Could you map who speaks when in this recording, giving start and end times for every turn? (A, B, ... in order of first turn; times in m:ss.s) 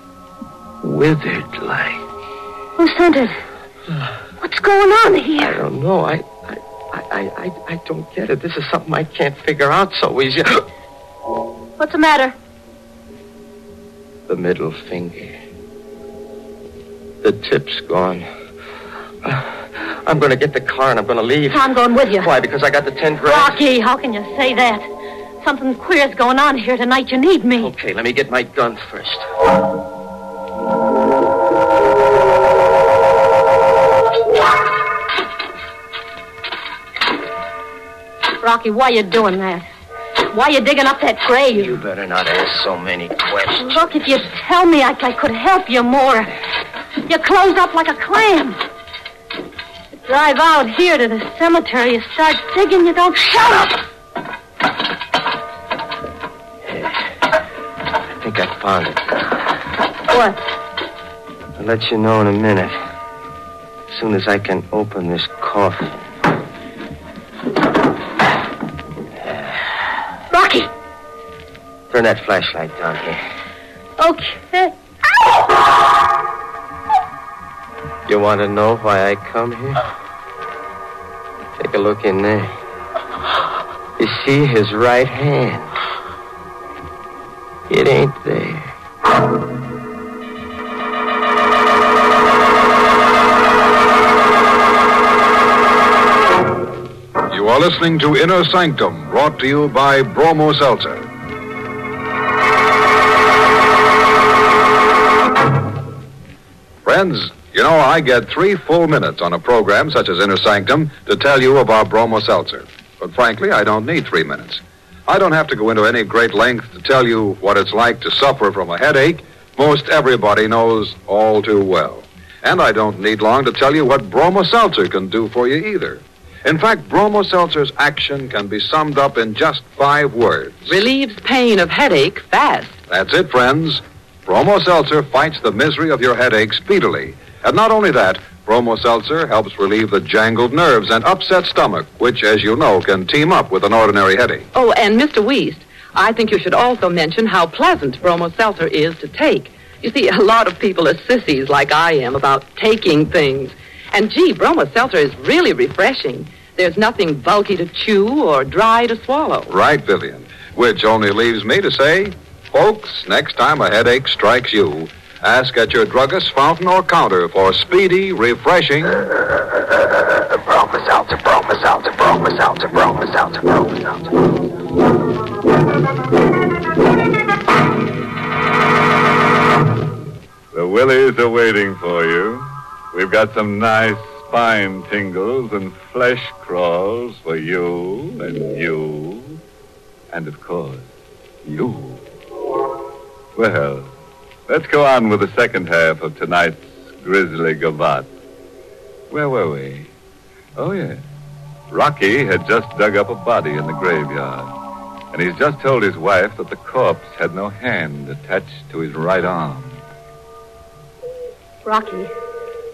0:00.8-0:02.0 A
0:02.8-0:03.4 B
0:04.4-0:05.6 B
0:05.4-0:10.6 A
0:11.8-0:12.3 B
0:14.3-0:15.3 A
0:17.2-0:18.3 A
0:19.2-0:21.6 A
0:21.5-0:22.3 B
0:22.2-0:23.6 A
0:23.2-0:24.9 B
0:25.4-0:27.7 B
0:27.6-0:29.2 A
0:38.4-0:39.7 B
0:40.2-0:41.8 B
0:41.5-0:43.8 A
0:43.6-0:46.3 B
0:47.1-0:48.6 B
0:50.0-0:53.8 B
0:56.7-0:56.9 A
0:58.2-0:59.2 A
1:00.1-1:00.4 B
1:01.6-1:02.8 A
1:03.9-1:06.0 A
1:10.3-1:10.7 B
1:11.9-1:13.2 A
1:14.0-1:14.7 B
1:18.1-1:19.8 A
1:21.6-1:22.6 A
1:24.0-1:25.7 A
1:27.7-1:28.7 A
1:37.3-1:41.1 C
1:46.8-2:10.7 C
2:10.7-2:12.8 D
2:12.9-2:24.5 C
2:24.5-2:39.5 D
2:39.5-2:49.0 C
2:50.3-2:54.1 E
3:00.5-3:09.4 F
3:10.1-3:10.9 F
3:11.4-3:12.0 F
3:13.4-3:13.9 F
3:14.5-3:18.1 F
3:19.1-3:19.9 F
3:20.6-3:21.0 F
3:21.7-3:24.5 F
3:25.1-3:29.8 F
3:31.6-3:32.1 B